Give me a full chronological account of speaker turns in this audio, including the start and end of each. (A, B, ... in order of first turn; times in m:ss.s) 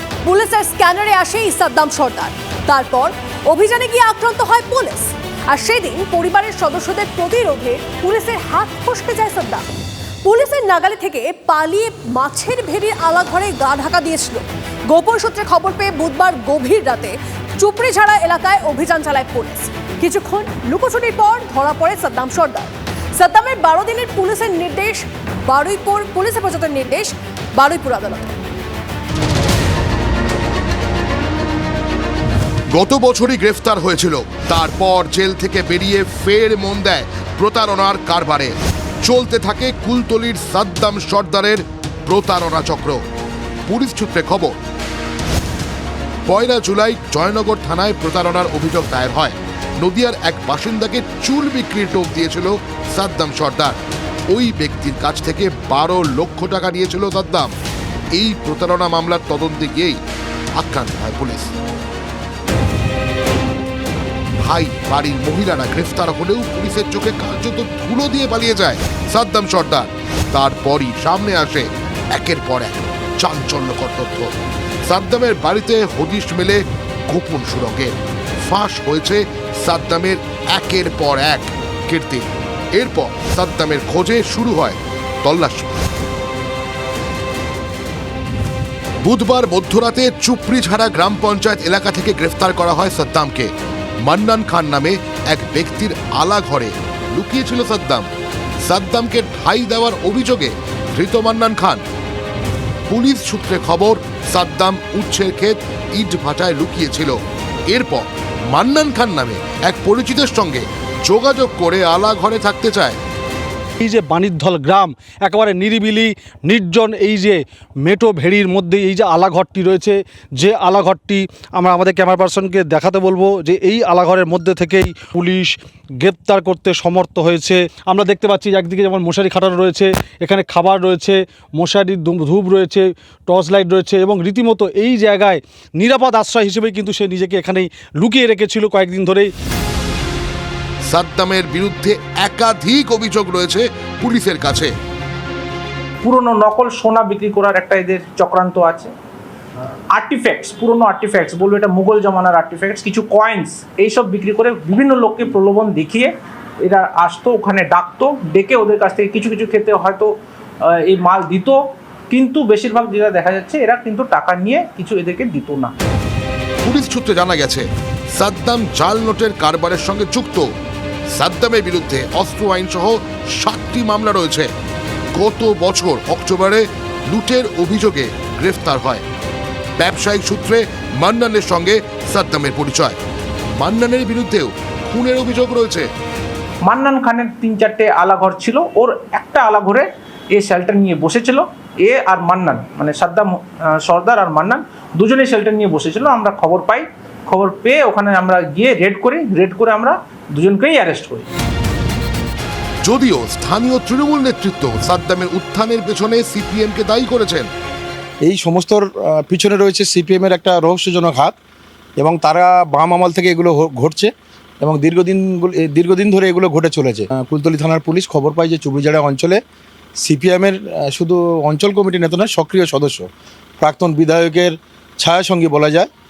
0:00.8-0:02.8 A
0:03.6-0:09.6 A
0:10.3-0:14.4 A
0:15.2-0:22.7 A
0:23.3-0:28.4 A
0:32.7-0:43.0 B
0:43.7-0:44.6 B
0:46.3-0:57.5 B
0:58.1-1:00.0 B
1:00.6-1:01.6 B
1:04.4-1:14.3 B
1:14.9-1:25.8 B
1:29.0-1:33.5 B
1:34.0-1:38.1 B
1:38.6-1:41.8 B
1:42.9-1:47.2 B
1:47.7-1:53.0 B
1:53.8-2:19.3 C
2:20.9-2:24.7 B
2:26.0-2:28.9 D
2:29.9-2:45.7 D
2:46.6-2:50.5 B
2:51.1-2:54.5 B
2:55.2-2:59.0 B
2:59.8-3:03.0 B
3:03.6-3:05.9 B
3:06.6-3:21.3 D
3:22.8-3:27.5 B
3:28.2-3:31.3 E
3:32.0-3:34.1 E
3:34.6-3:39.4 E
3:40.0-3:43.1 E
3:43.6-3:45.9 E